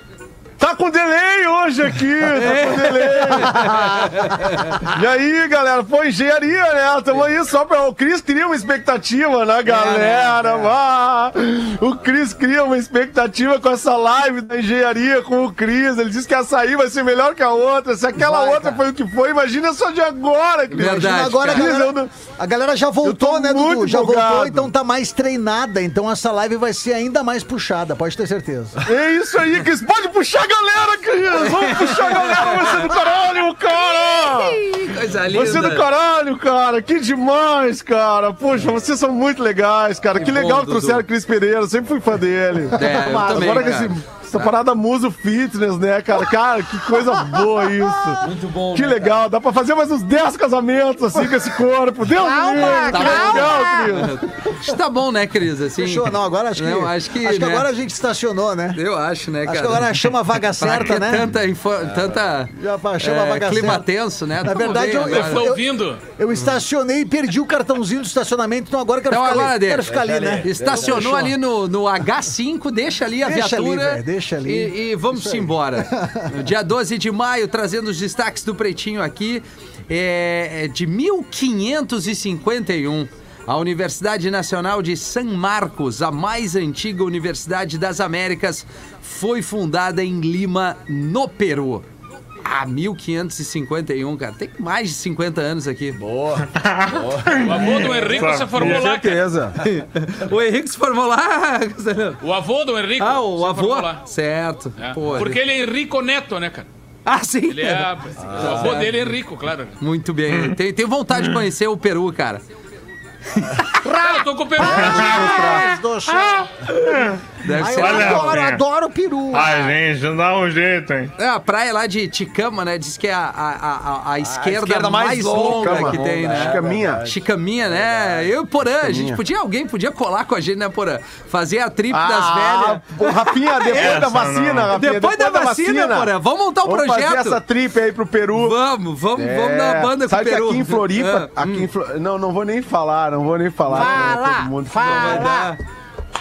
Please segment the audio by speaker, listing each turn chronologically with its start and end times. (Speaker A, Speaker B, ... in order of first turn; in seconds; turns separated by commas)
Speaker A: 0.6-22.1, Speaker B: 2.3-4.8, Speaker B: 9.7-10.7, Speaker C: 18.2-18.8, Speaker B: 20.7-21.7, Speaker C: 20.7-28.8, Speaker A: 23.0-24.7, Speaker A: 28.8-34.7, Speaker B: 31.4-32.9, Speaker B: 33.9-35.9, Speaker A: 35.3-54.3, Speaker B: 40.1-41.0, Speaker B: 42.7-44.0, Speaker C: 43.0-43.5, Speaker C: 47.2-48.1, Speaker B: 48.2-49.2, Speaker C: 52.1-54.0, Speaker B: 52.9-57.7, Speaker C: 55.8-58.8, Speaker B: 58.8-65.5, Speaker C: 59.4-61.3, Speaker D: 61.8-62.4, Speaker C: 62.5-63.9, Speaker C: 64.4-71.3, Speaker E: 65.0-66.0, Speaker B: 69.1-69.9, Speaker D: 69.8-71.3, Speaker B: 70.4-91.8, Speaker C: 73.2-76.3, Speaker B: 92.4-96.0, Speaker D: 96.0-97.5, Speaker F: 96.5-98.9, Speaker E: 97.4-99.2, Speaker A: 98.5-99.6, Speaker B: 99.6-102.2, Speaker E: 102.2-104.0, Speaker B: 103.0-105.4, Speaker E: 104.8-106.7, Speaker B: 107.1-109.0, Speaker E: 107.5-109.8, Speaker D: 108.2-108.7, Speaker B: 109.8-112.4, Speaker B: 113.3-113.8, Speaker C: 113.8-119.7, Speaker E: 113.9-115.5, Speaker F: 114.6-115.7, Speaker F: 116.9-118.6, Speaker B: 117.4-118.3, Speaker F: 119.3-121.1, Speaker B: 121.2-133.8, Speaker D: 124.2-128.4, Speaker A: 125.4-127.0, Speaker A: 128.8-129.2, Speaker A: 131.9-138.6, Speaker F: 133.8-134.7, Speaker B: 134.8-137.4, Speaker B: 138.3-141.7, Speaker A: 139.2-145.3, Speaker C: 143.7-145.5, Speaker B: 143.8-144.0, Speaker B: 144.8-145.6